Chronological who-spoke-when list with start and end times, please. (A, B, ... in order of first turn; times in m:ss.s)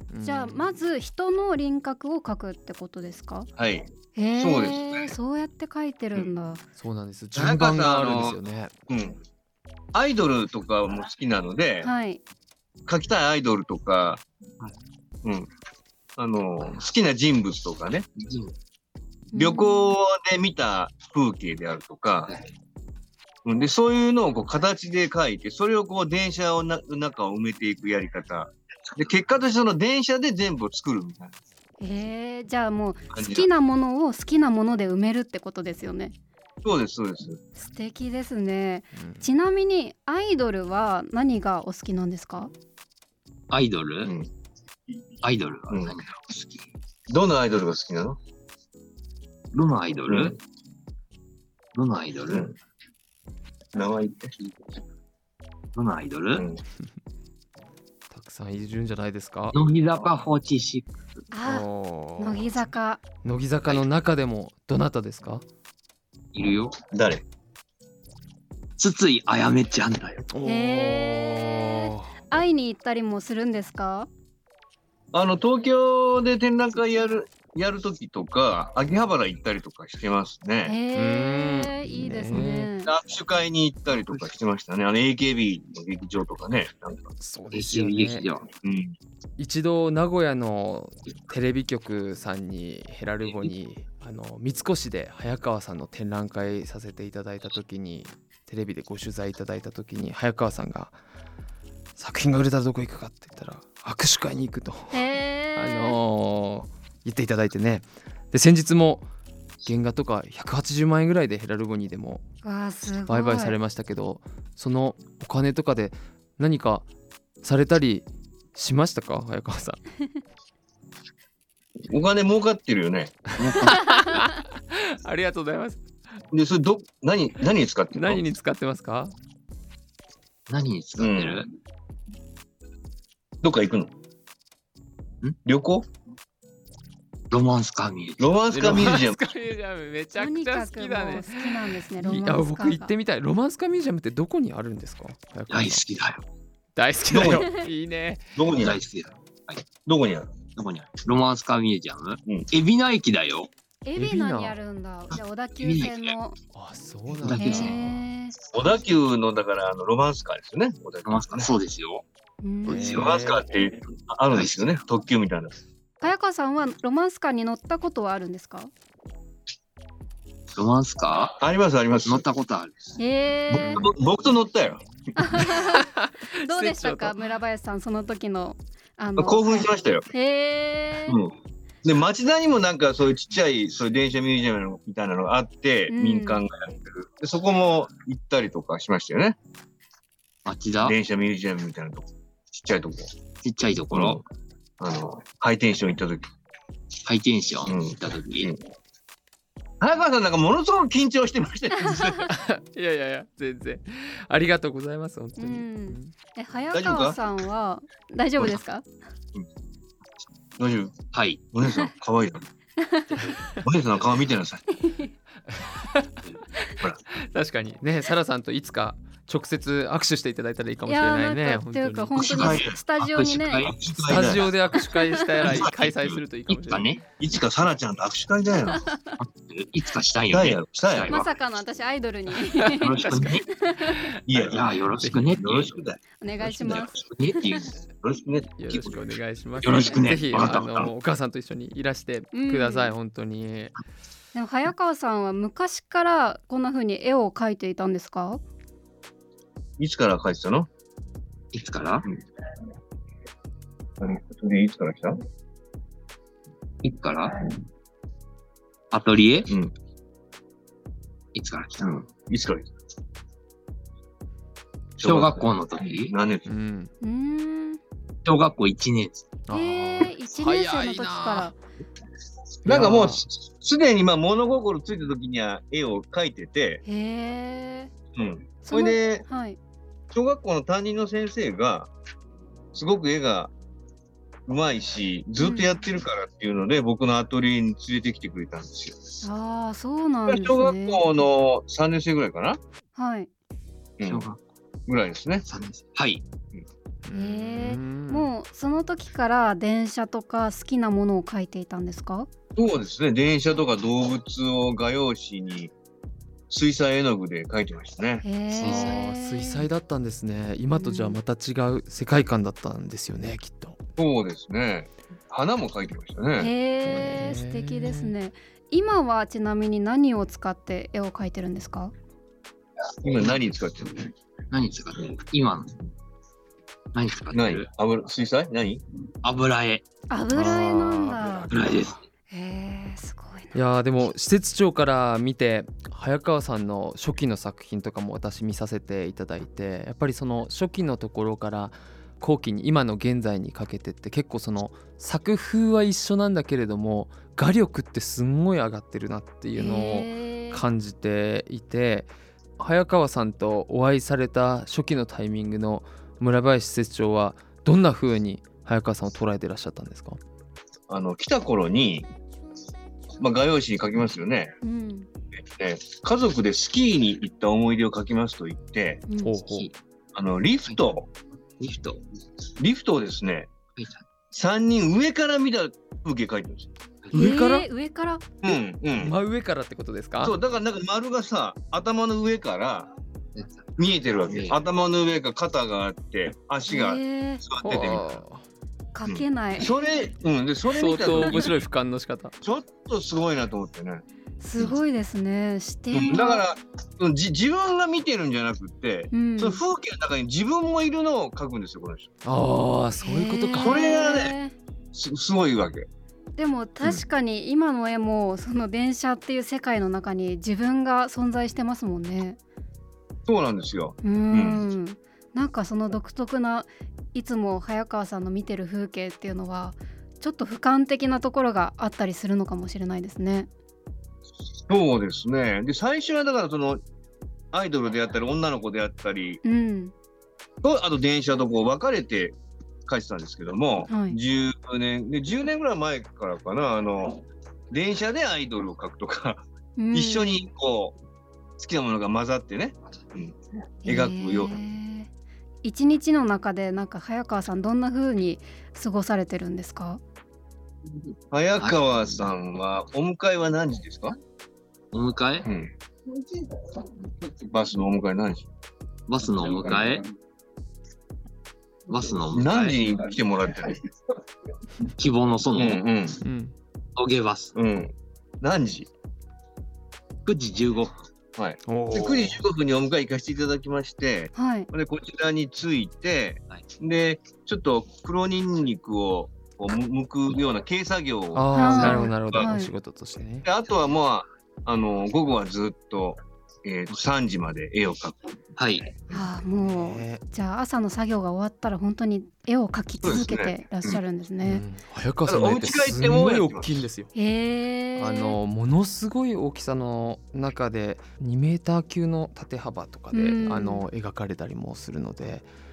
0:00.1-0:00.7 A
0:00.2-0:03.5 B
0:03.6-0:05.1 C
0:04.1-0:06.6 B
0:06.8-0:08.7 A
0:07.3-0:08.4 C
0:08.9-0:09.2 C
0:09.9-0:11.9 C
0:11.8-0:12.2 B
0:12.9-0:14.2 C
0:15.2-0:15.5 C
0:16.2-0:18.1 C
0:18.2-0:18.5 D
0:19.3-0:20.0 B
0:19.3-0:22.3 C
0:23.4-0:31.3 C
0:31.8-0:36.1 B
0:33.1-0:33.5 C
0:36.6-0:37.4 C
0:37.6-0:42.5 B
0:39.0-0:39.3 A
0:43.5-0:44.1 D
0:45.2-0:46.6 D
0:45.7-0:45.9 C
0:47.1-0:48.2 C
0:49.5-0:50.3 D
0:50.1-0:50.4 C
0:51.7-0:52.5 D
0:53.7-0:54.4 C
0:55.7-0:56.4 D
0:56.3-0:56.6 C
0:58.1-0:59.6 A
0:59.5-1:01.0 D
1:01.3-1:01.7 B
1:01.4-1:02.7 A
1:02.2-1:03.0 B
1:03.2-1:05.4 A
1:06.3-1:06.8 D
1:06.9-1:07.2 C
1:08.8-1:10.2 D
1:10.3-1:12.2 A
1:10.4-1:14.1 B
1:15.1-1:20.8 C
1:20.6-1:22.9 B
1:20.9-1:22.7 A
1:22.4-1:27.1 C
1:23.9-1:24.3 D
1:27.2-1:28.2 A
1:27.5-1:28.5 D
1:28.6-1:28.9 C
1:29.4-1:41.0 A
1:42.0-1:49.1 A
1:44.9-1:46.0 B
1:49.6-1:52.2 A
1:52.4-1:53.6 B
1:53.1-1:56.8 A
1:57.4-1:59.8 A
2:01.9-2:03.3 C
2:03.4-2:04.2 D
2:03.5-2:05.8 A
2:06.3-2:08.2 C
2:07.9-2:09.1 A
2:10.5-2:11.5 D
2:11.0-2:11.4 C
2:13.4-2:13.9 C
2:15.4-2:15.9 C
2:17.3-2:18.4 D
2:18.2-2:19.2 C
2:18.5-2:25.8 A
2:20.2-2:22.9 B
2:25.5-2:26.2 D
2:26.8-2:28.4 A
2:27.1-2:27.5 C
2:28.4-2:28.8 C
2:28.5-2:29.6 D
2:29.8-2:30.3 C
2:30.6-2:33.5 D
2:33.8-2:36.4 B
2:34.0-2:34.6 A
2:35.6-2:36.1 D
2:36.5-2:38.0 A
2:37.1-2:37.9 D
2:37.3-2:38.4 B
2:38.5-2:41.5 C
2:41.0-2:42.0 D
2:42.4-2:42.9 B
2:42.6-2:43.3 D
2:42.6-2:43.4 A
2:42.9-2:45.5 C
2:44.3-2:44.8 D
2:46.0-2:48.7 B
2:50.5-2:51.4 D
2:51.4-2:52.3 C
2:52.0-2:52.9 D
2:53.0-2:53.9 B
2:53.5-2:54.8 C
2:53.6-2:53.9 A
2:55.2-3:01.2 B
2:55.4-2:57.2 A
2:59.2-3:00.1 C
3:01.1-3:09.4 C
3:05.9-3:06.4 B
3:10.4-3:11.0 D
3:10.8-3:13.1 C
3:13.4-3:14.2 D
3:13.9-3:14.2 C
3:14.8-3:16.3 C
3:17.0-3:18.5 D
3:17.7-3:18.6 C
3:19.8-3:22.3 C
3:22.3-3:26.1 A
3:25.4-3:28.8 B
3:26.7-3:27.2 C
3:30.6-3:32.4 C
3:31.1-3:31.4 D
3:32.8-3:33.3 B
3:33.5-3:34.7 C
3:34.8-3:35.1 B
3:35.5-3:36.1 A
3:37.1-3:42.7 A
3:40.9-3:43.7 B
3:42.2-3:42.8 C
3:43.0-3:44.5 D
3:43.6-3:44.5 C
3:44.0-3:46.9 A
3:44.9-3:45.4 B
3:45.4-3:45.9 C
3:45.5-3:45.8 D
3:46.5-3:47.0 D
3:47.2-3:48.9 C
3:48.7-3:49.2 B
3:49.2-3:51.3 D
3:50.3-3:51.2 C
3:51.1-3:54.1 B
3:52.6-3:54.2 A
3:52.7-3:53.5 D
3:54.3-3:56.0 C
3:54.3-3:55.8 D
3:55.0-3:55.4 A
3:56.2-3:57.6 B
3:56.5-3:57.8 D
3:58.0-3:59.0 C
3:58.5-4:03.7 A
3:59.6-4:00.9 D
3:59.7-4:00.7 C
4:02.3-4:02.9 B
4:04.3-4:08.4 B
4:09.8-4:10.7 C
4:11.5-4:12.0 D
4:14.0-4:15.2 C
4:16.8-4:17.4 D
4:18.9-4:19.5 D
4:21.3-4:22.0 D
4:22.3-4:22.7 C
4:25.0-4:26.1 D
4:25.0-4:26.5 C
4:26.4-4:26.9 A
4:27.0-4:27.8 B
4:28.2-4:29.3 D
4:29.5-4:31.5 A
4:29.5-4:31.6 B
4:32.6-4:36.8 C
4:32.6-4:33.3 A
4:36.8-4:37.9 B
4:38.1-4:39.2 C
4:38.6-4:39.6 B
4:40.1-4:41.9 C
4:42.7-4:43.5 C
4:44.5-4:49.2 C
4:45.4-4:45.7 B
4:49.2-4:51.1 B
4:50.3-4:52.6 C
4:52.9-4:53.3 B
4:54.0-4:54.3 C
4:54.0-4:54.4 D
4:54.9-4:55.4 C
4:55.4-4:56.2 D
4:57.0-4:58.3 A
4:57.1-5:02.3 B
5:02.6-5:05.7 C
5:06.5-5:08.2 C
5:08.2-5:09.7 B
5:08.6-5:09.0 D
5:08.6-5:13.8 A
5:10.7-5:11.2 B
5:14.0-5:16.5 C
5:16.4-5:21.9 B
5:16.8-5:18.1 A
5:23.0-5:24.1 C
5:24.5-5:25.8 D
5:26.9-5:27.7 D
5:27.3-5:28.8 C
5:29.2-5:29.8 D
5:30.1-5:31.5 B
5:30.3-5:32.0 A
5:31.5-5:32.0 D
5:32.3-5:33.6 B
5:33.5-6:00.2 A
5:49.6-5:50.6 B
6:00.9-6:02.1 C
6:03.2-6:04.5 C
6:04.6-6:05.1 B
6:05.3-6:09.0 C
6:09.1-6:09.4 B
6:09.2-6:09.7 A
6:09.5-6:09.8 D
6:10.1-6:11.1 C
6:11.6-6:12.0 D
6:12.6-6:13.5 C
6:13.8-6:14.0 D
6:14.3-6:16.7 C
6:17.1-6:17.7 A
6:17.1-6:18.2 B
6:18.4-6:19.1 C
6:18.9-6:20.4 A
6:20.2-6:22.9 C
6:23.4-6:23.7 D
6:23.8-6:28.2 C
6:24.3-6:24.6 D
6:26.7-6:27.4 B
6:27.6-6:28.4 A
6:28.9-6:29.7 B
6:29.0-6:31.6 C
6:30.7-6:32.3 A
6:32.4-6:34.0 C
6:34.4-6:36.4 B
6:35.9-6:42.1 C
6:39.1-6:39.6 B
6:42.2-6:43.9 A
6:43.0-6:44.6 B
6:43.6-6:44.3 C
6:44.9-6:45.9 C
6:46.4-6:52.4 B
6:53.2-6:54.6 C
6:54.0-7:03.5 B
7:04.7-7:06.8 C
7:07.5-7:09.4 C
7:09.4-7:09.9 B
7:10.6-7:20.9 C
7:13.9-7:14.2 B
7:19.8-7:20.4 B
7:21.6-7:24.6 C
7:23.8-7:25.1 B
7:25.6-7:30.0 B
7:31.3-7:34.2 C
7:31.6-7:32.4 D
7:34.9-7:35.5 D
7:35.4-7:35.7 C
7:37.2-7:38.5 C
7:39.1-7:40.0 D
7:41.9-7:42.8 D
7:42.3-7:43.8 C
7:45.0-7:45.8 D
7:45.5-7:46.2 C
7:46.2-7:46.5 A
7:47.0-7:47.6 D
7:47.6-7:48.9 C
7:50.2-7:50.9 D
7:51.4-8:02.5 C
7:51.7-7:52.4 A
7:54.4-7:54.7 B
8:01.3-8:03.5 A
8:01.5-8:02.7 B
8:03.4-8:08.4 C
8:08.6-8:08.9 D
8:09.1-8:14.6 B
8:09.1-8:10.2 A
8:13.0-8:14.0 C
8:14.4-8:17.1 A
8:15.3-8:16.8 C
8:17.1-8:18.4 B
8:18.0-8:25.5 A
8:23.1-8:23.8 B